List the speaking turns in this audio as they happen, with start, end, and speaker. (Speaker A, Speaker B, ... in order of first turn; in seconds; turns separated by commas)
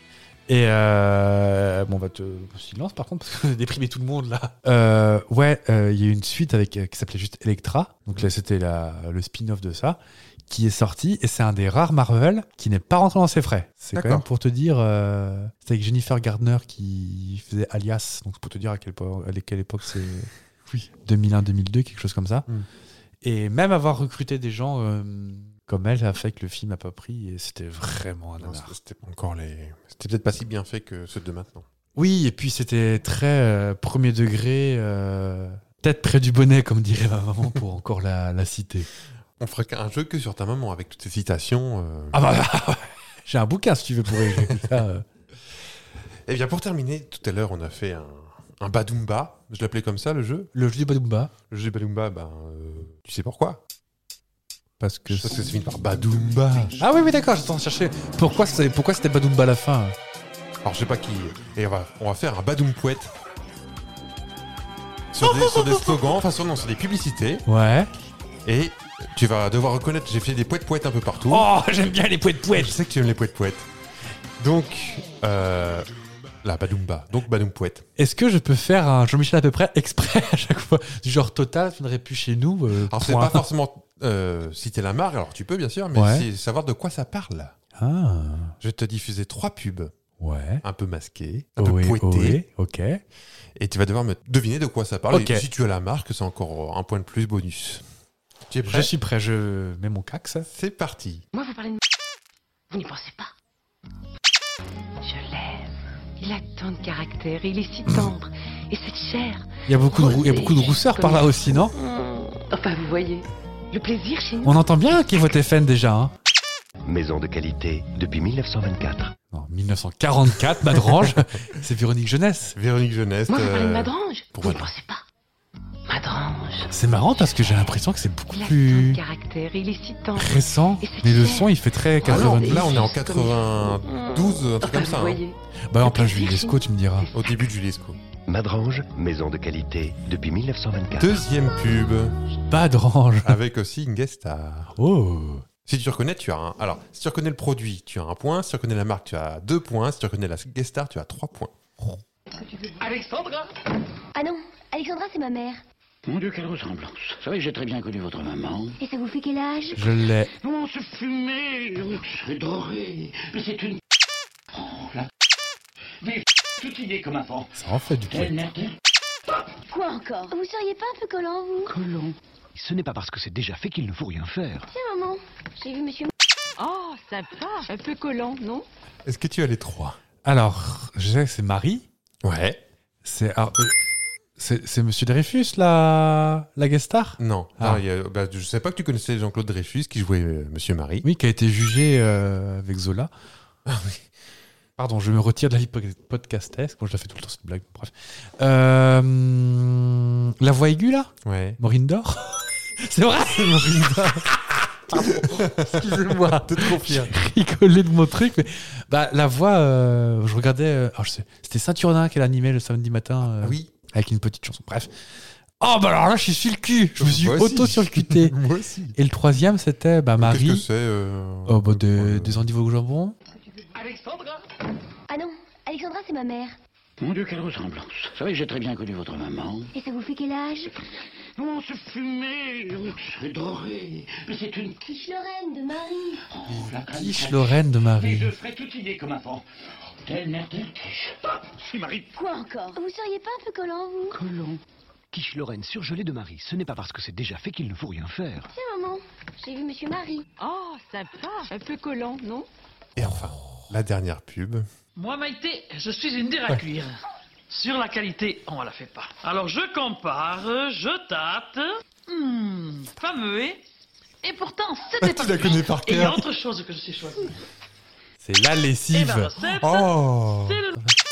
Speaker A: 0.5-22.5, Speaker B: 13.9-14.2, Speaker A: 23.2-28.8, Speaker B: 28.4-31.7, Speaker A: 32.0-38.9, Speaker B: 39.4-42.2, Speaker A: 42.1-45.0, Speaker B: 44.3-44.6, Speaker B: 46.3-50.5, Speaker A: 50.5-51.3, Speaker B: 51.5-53.6, Speaker A: 54.8-55.4, Speaker B: 55.1-56.9, Speaker A: 56.8-60.0, Speaker B: 60.6-63.1, Speaker B: 65.1-67.5, Speaker A: 65.2-66.0, Speaker A: 67.5-67.9, Speaker B: 68.5-71.5, Speaker A: 71.3-72.8, Speaker B: 72.5-73.7, Speaker B: 74.4-75.9, Speaker B: 76.4-77.9, Speaker A: 78.0-83.5, Speaker B: 82.8-87.5, Speaker A: 86.0-86.3, Speaker A: 87.8-88.5, Speaker B: 88.6-89.9, Speaker A: 90.2-90.6, Speaker B: 90.6-92.4, Speaker A: 91.6-93.0, Speaker B: 93.6-97.8, Speaker A: 95.1-95.5, Speaker B: 98.5-98.9, Speaker A: 98.7-100.5, Speaker B: 100.5-101.2, Speaker C: 101.3-101.8, Speaker C: 102.7-103.3, Speaker C: 105.0-114.6, Speaker A: 109.7-111.7, Speaker A: 114.4-116.1, Speaker D: 116.8-119.1, Speaker A: 119.3-122.6, Speaker B: 122.6-124.7, Speaker C: 123.3-125.0, Speaker C: 125.9-126.7, Speaker A: 126.7-129.0, Speaker C: 128.3-137.4, Speaker A: 130.1-132.8, Speaker B: 132.0-135.2, Speaker A: 135.7-137.1, Speaker B: 137.1-138.0, Speaker D: 138.3-141.2, Speaker B: 141.0-142.2, Speaker A: 142.5-143.4, Speaker B: 143.2-144.7, Speaker A: 144.8-145.5, Speaker B: 145.7-151.5, Speaker E: 154.2-155.6, Speaker F: 156.0-158.8, Speaker E: 158.8-159.8, Speaker A: 159.8-160.3, Speaker F: 160.4-163.8, Speaker F: 164.5-165.1, Speaker F: 166.0-167.5, Speaker A: 167.6-168.4, Speaker F: 168.1-168.8, Speaker E: 169.7-171.8, Speaker C: 171.7-172.2, Speaker D: 172.6-174.6, Speaker E: 174.7-176.1, Speaker C: 176.6-178.7, Speaker B: 179.1-180.0, Speaker A: 180.2-181.8, Speaker B: 182.2-182.6, Speaker A: 183.0-183.8, Speaker A: 184.4-187.8, Speaker B: 187.2-191.1, Speaker A: 191.0-193.1, Speaker B: 193.7-194.1, Speaker A: 194.8-214.9, Speaker B: 201.2-201.6, Speaker B: 203.4-204.2, Speaker B: 204.9-207.2, Speaker B: 213.3-213.7, Speaker A: 215.6-218.3, Speaker B: 217.0-219.0, Speaker A: 219.0-220.7, Speaker B: 220.2-222.4, Speaker A: 221.5-223.2, Speaker E: 225.1-226.6, Speaker F: 227.0-229.7, Speaker E: 229.7-230.7, Speaker F: 231.4-234.8, Speaker E: 234.8-236.2, Speaker F: 236.4-239.4, Speaker A: 236.5-238.3, Speaker F: 240.0-242.1, Speaker E: 242.1-244.2, Speaker C: 244.2-244.6, Speaker D: 245.1-248.4, Speaker E: 248.5-250.2, Speaker C: 250.4-252.5, Speaker B: 253.0-254.7, Speaker G: 255.0-257.0, Speaker G: 257.5-263.6, Speaker G: 264.2-267.4, Speaker B: 265.0-266.2, Speaker A: 268.2-269.3, Speaker G: 268.9-270.8, Speaker B: 269.6-270.6